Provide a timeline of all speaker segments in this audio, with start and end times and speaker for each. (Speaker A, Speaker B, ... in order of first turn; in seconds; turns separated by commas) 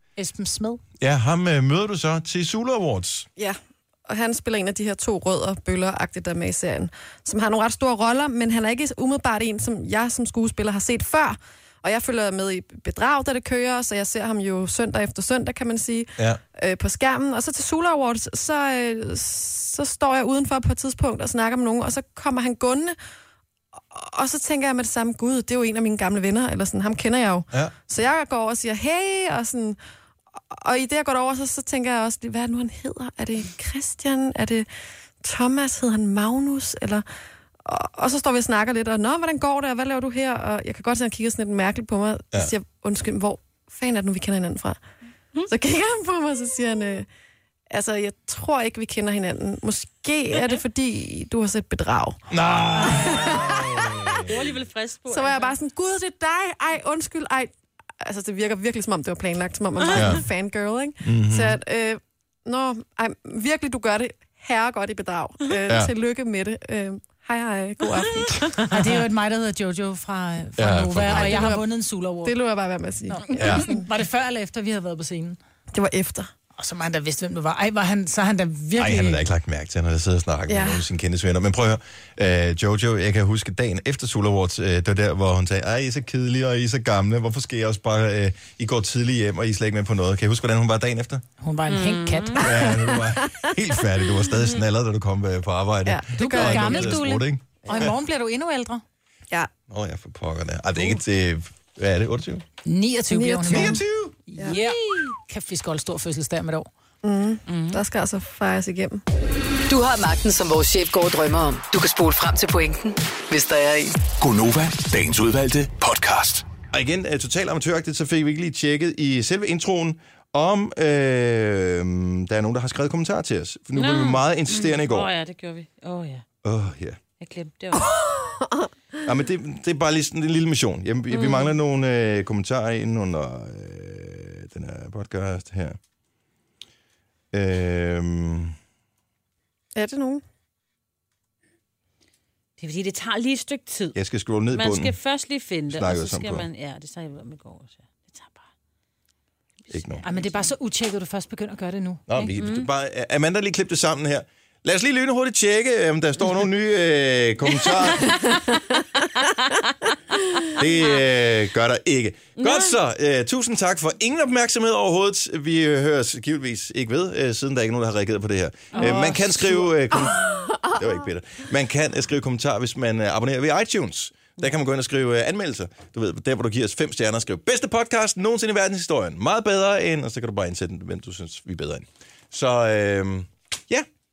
Speaker A: 0.2-0.8, Speaker B: 1.0-3.3, Speaker C: 3.4-23.0, Speaker C: 23.8-29.8, Speaker C: 30.5-34.7, Speaker C: 35.2-37.0, Speaker C: 37.6-44.8, Speaker C: 45.5-47.1, Speaker C: 47.7-52.2, Speaker B: 52.3-54.4, Speaker C: 52.9-53.9, Speaker D: 54.2-55.6, Speaker C: 55.1-68.6, Speaker B: 59.9-60.2, Speaker B: 61.0-61.6, Speaker A: 68.7-72.3, Speaker B: 70.6-71.6, Speaker C: 71.1-71.7, Speaker C: 72.2-73.8, Speaker A: 73.1-75.4, Speaker B: 73.3-73.7, Speaker C: 75.7-76.3, Speaker A: 76.6-79.2, Speaker B: 78.8-91.2, Speaker C: 80.5-80.8, Speaker A: 91.4-92.4, Speaker D: 91.7-92.5, Speaker B: 92.4-97.9, Speaker C: 92.5-93.3, Speaker C: 95.9-97.0, Speaker A: 96.2-98.8, Speaker B: 99.7-102.5, Speaker A: 102.7-106.7, Speaker C: 103.1-103.8, Speaker B: 103.5-104.2, Speaker C: 107.0-109.0, Speaker D: 107.5-107.8, Speaker E: 109.7-114.0, Speaker F: 114.2-116.5, Speaker B: 116.7-125.1, Speaker D: 123.8-126.2, Speaker B: 126.4-127.0, Speaker D: 127.2-127.9, Speaker C: 127.8-128.7, Speaker B: 129.0-135.8, Speaker B: 137.3-138.6, Speaker C: 139.8-140.2, Speaker D: 142.6-144.0, Speaker B: 143.9-144.9, Speaker D: 144.5-148.4, Speaker B: 145.7-146.5, Speaker B: 149.7-150.1, Speaker A: 150.0-152.1, Speaker B: 152.1-158.2, Speaker D: 152.2-152.7, Speaker B: 160.6-183.9, Speaker D: 162.4-162.8, Speaker D: 168.7-169.5, Speaker A: 168.8-169.3, Speaker C: 170.1-170.8